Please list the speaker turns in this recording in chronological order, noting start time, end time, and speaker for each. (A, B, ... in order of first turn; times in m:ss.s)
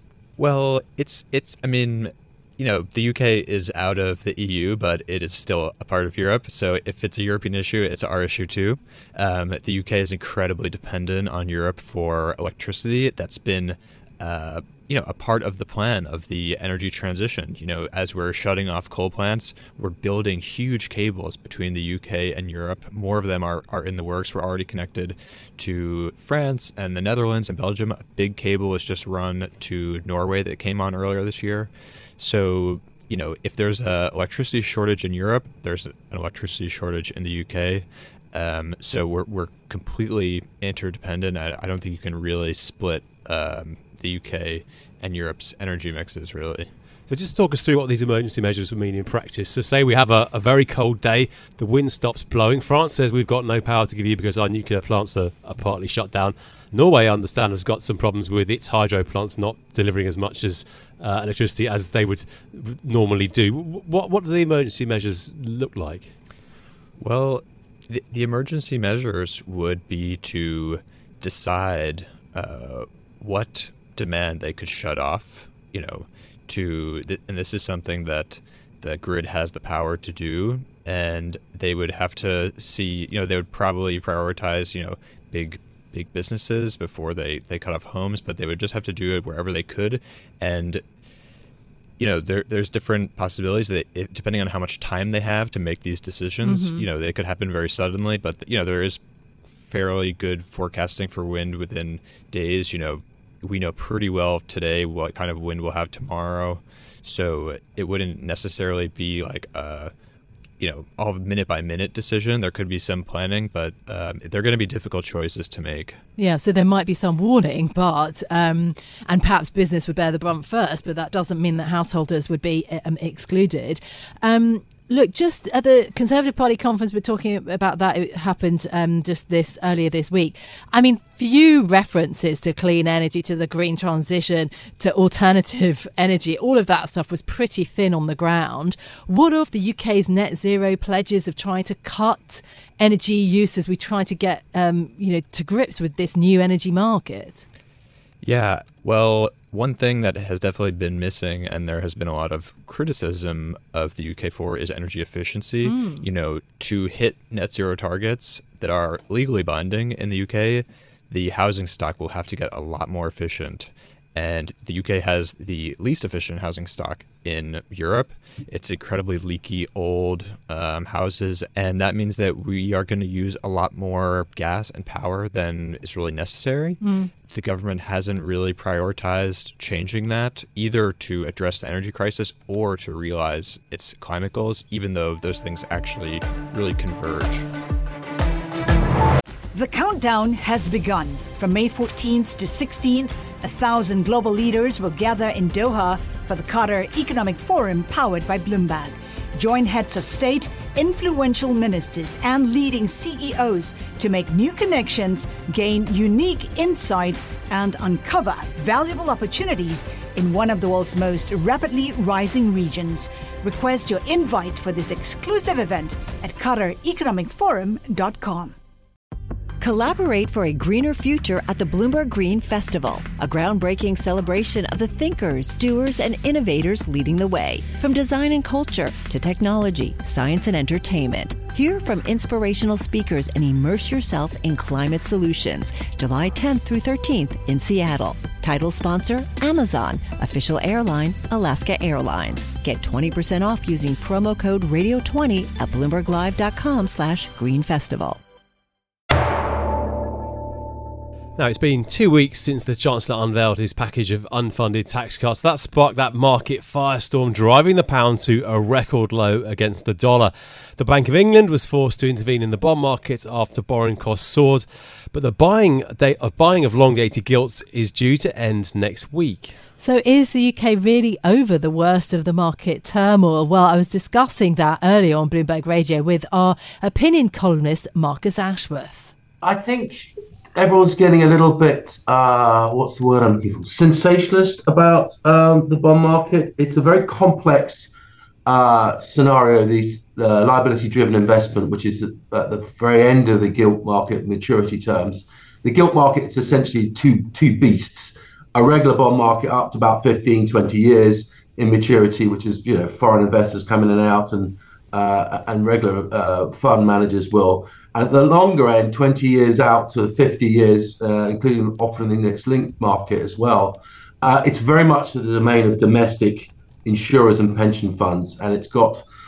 0:00.4-0:46.7 A
0:47.1-1:06.1 B
1:07.0-1:30.8 A
1:32.0-1:39.0 A
1:36.4-1:36.8 C
1:39.6-1:49.9 A
1:50.6-1:56.0 A
1:56.2-2:27.4 C
2:28.2-3:07.5 A
2:35.6-2:36.0 C
2:56.8-2:57.1 C
3:09.5-3:38.6 D
3:39.6-4:08.2 E
4:11.4-4:29.6 B
4:29.8-4:39.1 C
4:39.4-4:47.9 F
4:48.4-5:19.0 F